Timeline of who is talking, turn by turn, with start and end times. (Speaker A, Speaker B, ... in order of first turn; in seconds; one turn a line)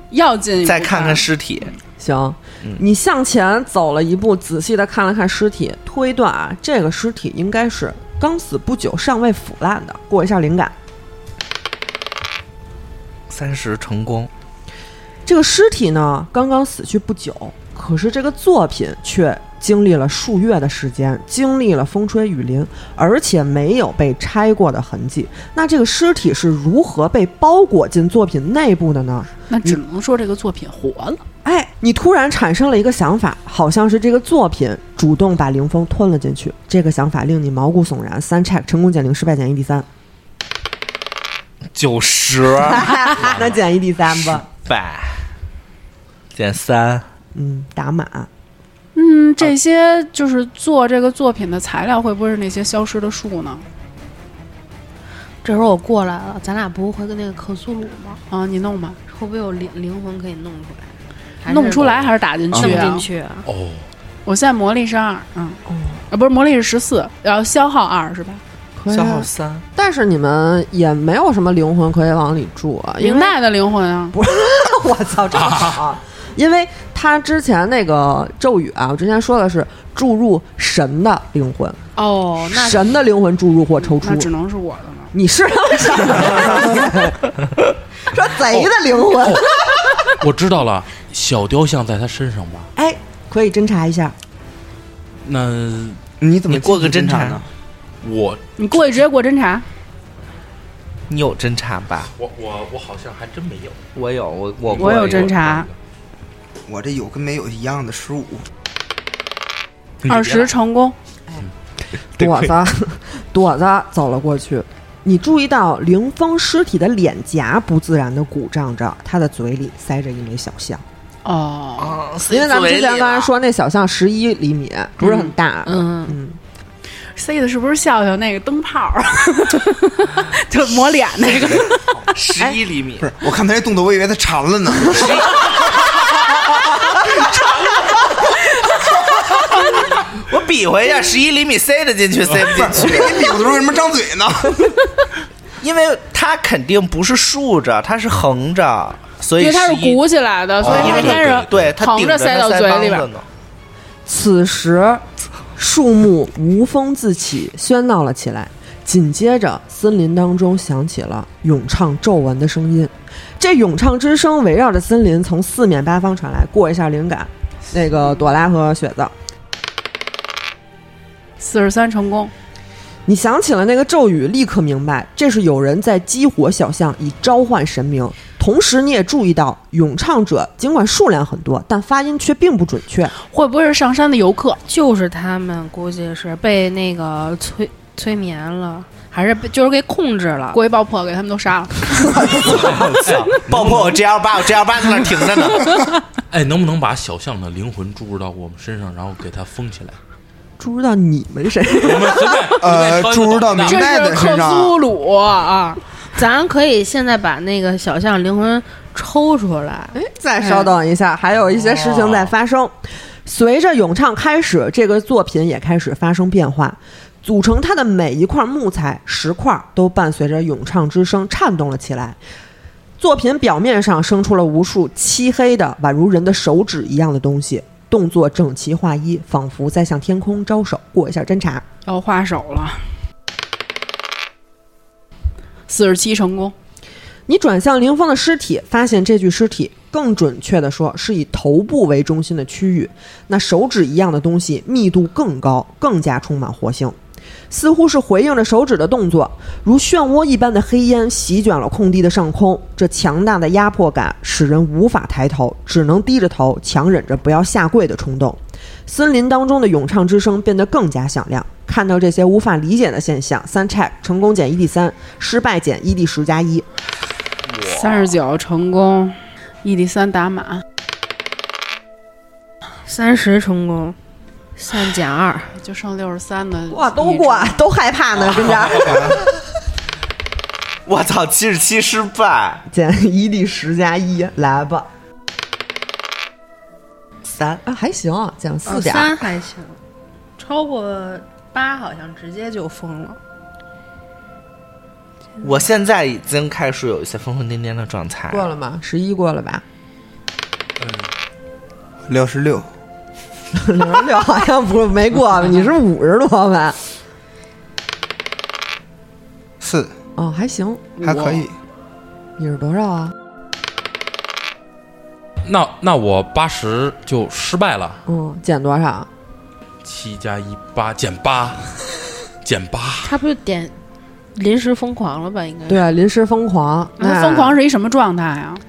Speaker A: 0.1-1.3
Speaker B: 0.6-1.7
Speaker C: 2.0-10.7
Speaker B: 13.3-14.3
Speaker C: 15.2-29.8
Speaker A: 29.5-31.2
Speaker C: 31.4-39.9
Speaker B: 41.7-43.5
Speaker C: 42.6-44.5
Speaker B: 44.3-45.2
Speaker B: 46.3-47.0
Speaker C: 47.3-48.3
Speaker A: 48.9-53.6
Speaker D: 55.4-58.2
Speaker A: 58.3-59.0
Speaker D: 59.1-63.5
Speaker A: 61.5-63.1
Speaker E: 62.5-62.9
Speaker E: 63.5-63.8
Speaker A: 64.2-65.6
Speaker A: 66.1-68.4
Speaker C: 68.8-73.3
Speaker B: 68.9-69.6
Speaker A: 73.0-74.1
Speaker C: 74.1-81.8
Speaker E: 75.3-75.8
Speaker D: 82.0-83.0
Speaker C: 82.5-84.3
Speaker A: 84.0-85.1
Speaker C: 85.1-87.2
Speaker C: 88.1-90.0
Speaker E: 88.5-92.7
Speaker C: 92.8-94.1
Speaker E: 95.2-96.0
Speaker F: 96.2-97.5
Speaker B: 96.5-97.4
Speaker E: 98.0-98.5
Speaker A: 98.6-99.6
Speaker B: 101.1-102.1
Speaker E: 102.2-103.8
Speaker B: 103.9-105.4
Speaker E: 104.7-105.7
Speaker A: 104.8-105.7
Speaker F: 106.7-108.5
Speaker E: 110.0-110.5
Speaker A: 110.1-110.9
Speaker B: 112.2-112.5
Speaker C: 112.2-120.8
Speaker A: 121.2-122.0
Speaker B: 121.8-123.3
Speaker C: 122.3-126.4
Speaker D: 125.6-126.2
Speaker A: 127.1-132.0
Speaker B: 131.2-133.1
Speaker F: 133.0-136.6
Speaker B: 134.9-135.8
Speaker E: 137.3-137.8
Speaker A: 138.3-139.4
Speaker B: 140.2-143.4
Speaker E: 142.3-142.8
Speaker F: 142.5-144.7
Speaker B: 145.6-150.0
Speaker A: 149.4-153.1
Speaker B: 150.6-153.2
Speaker E: 150.6-151.7
Speaker C: 154.1-155.0
Speaker C: 155.6-169.1
Speaker A: 171.4-172.3
Speaker C: 173.1-183.1
Speaker A: 183.2-184.6
Speaker D: 184.7-190.6
Speaker A: 190.5-192.5
Speaker E: 192.4-194.0
Speaker B: 192.5-195.7
Speaker A: 195.6-195.9
Speaker E: 196.3-200.0
Speaker C: 200.6-202.6
Speaker E: 201.8-203.8
Speaker F: 202.6-204.7
Speaker A: 203.7-205.8
Speaker D: 206.1-210.0
Speaker C: 209.9-222.2
Speaker E: 211.6-212.3
Speaker C: 223.0-231.7
Speaker A: 231.8-232.8
Speaker A: 235.7-236.5
Speaker C: 237.3-246.9
Speaker C: 247.5-266.7
Speaker E: 267.5-268.0
Speaker A: 267.6-270.6
Speaker D: 272.9-274.0
Speaker D: 274.6-275.5
Speaker A: 275.6-277.7
Speaker C: 276.7-279.3
Speaker E: 278.3-279.1
Speaker B: 280.9-282.6
Speaker C: 282.7-284.9
Speaker B: 287.2-287.6
Speaker C: 287.6-289.2
Speaker D: 288.7-289.8
Speaker D: 290.4-293.2
Speaker B: 295.4-298.5
Speaker C: 298.3-299.6
Speaker E: 300.8-301.1
Speaker F: 302.1-302.7
Speaker C: 303.5-306.8
Speaker F: 309.6-309.9
Speaker C: 310.2-311.0
Speaker A: 311.0-311.4
Speaker F: 311.0-311.5
Speaker C: 312.4-313.1
Speaker E: 315.4-318.0
Speaker C: 318.1-319.1
Speaker E: 319.8-321.8
Speaker E: 322.4-323.1
Speaker D: 323.0-323.7
Speaker D: 324.3-325.8
Speaker C: 325.7-327.6
Speaker A: 327.0-328.6